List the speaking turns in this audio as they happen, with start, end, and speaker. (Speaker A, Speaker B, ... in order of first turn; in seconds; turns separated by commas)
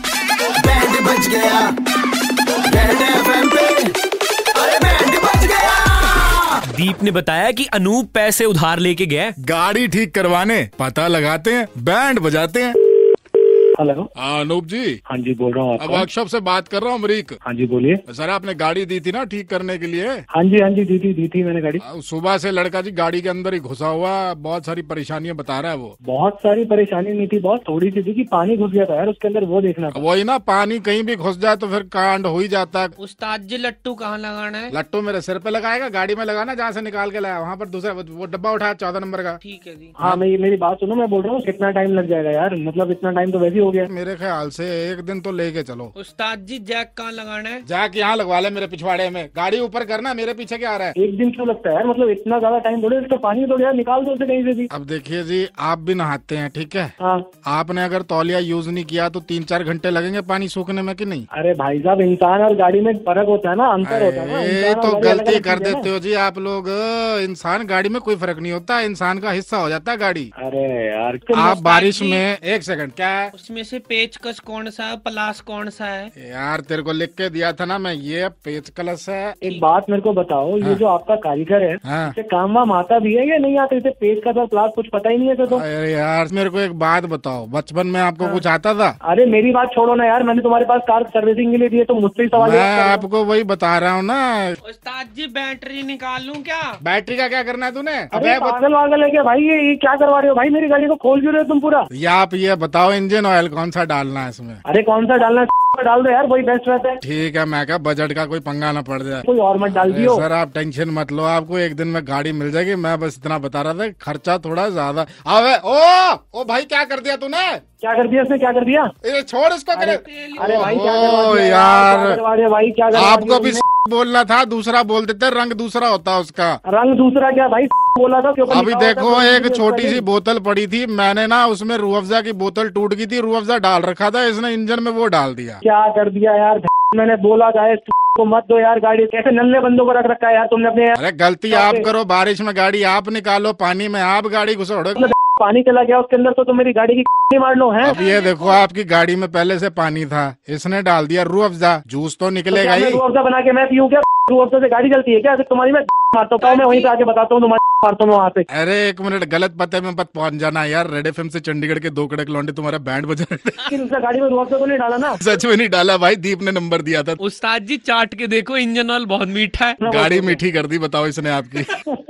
Speaker A: 0.6-1.7, Speaker A: 2.7-3.9, Speaker A: 4.6-6.5, Speaker B: 6.7-9.3, Speaker C: 9.4-12.7, Speaker D: 13.8-14.1, Speaker C: 14.2-15.0, Speaker D: 15.1-16.1, Speaker C: 15.8-17.4, Speaker D: 17.4-18.0, Speaker C: 18.1-20.2, Speaker D: 20.3-21.8, Speaker C: 21.8-25.9, Speaker D: 26.1-30.0, Speaker C: 29.9-33.0, Speaker E: 33.0-34.7, Speaker C: 34.7-39.4, Speaker E: 39.4-40.0, Speaker D: 40.0-43.9, Speaker C: 43.9-45.9, Speaker E: 46.0-47.6, Speaker C: 47.7-50.9, Speaker D: 51.0-54.7, Speaker C: 54.7-56.9, Speaker C: 57.5-61.3, Speaker D: 61.3-65.9, Speaker C: 63.8-70.3, Speaker D: 70.4-71.7, Speaker C: 71.3-73.3, Speaker E: 71.6-72.2, Speaker E: 73.3-76.1, Speaker C: 76.2-79.4, Speaker D: 79.4-85.7, Speaker C: 81.9-82.1, Speaker C: 85.5-89.0, Speaker D: 89.0-93.0, Speaker C: 92.4-94.6, Speaker E: 94.6-96.8, Speaker C: 96.8-98.6, Speaker D: 98.1-101.9, Speaker C: 101.9-104.6, Speaker D: 104.7-107.0, Speaker C: 107.0-117.6, Speaker D: 109.2-110.3, Speaker D: 117.8-118.9, Speaker C: 119.0-122.2, Speaker D: 119.8-123.6, Speaker E: 120.0-120.7, Speaker C: 122.9-126.6, Speaker D: 126.7-130.0, Speaker C: 128.5-135.6, Speaker D: 135.6-141.0, Speaker C: 141.0-145.1, Speaker D: 141.5-141.9, Speaker D: 145.0-148.0, Speaker C: 147.8-153.0, Speaker E: 147.9-148.6, Speaker D: 152.5-158.5, Speaker E: 156.4-156.9, Speaker C: 158.5-163.7, Speaker D: 163.7-165.2, Speaker C: 165.2-167.2, Speaker E: 167.2-169.8, Speaker D: 169.8-170.4, Speaker C: 169.9-171.8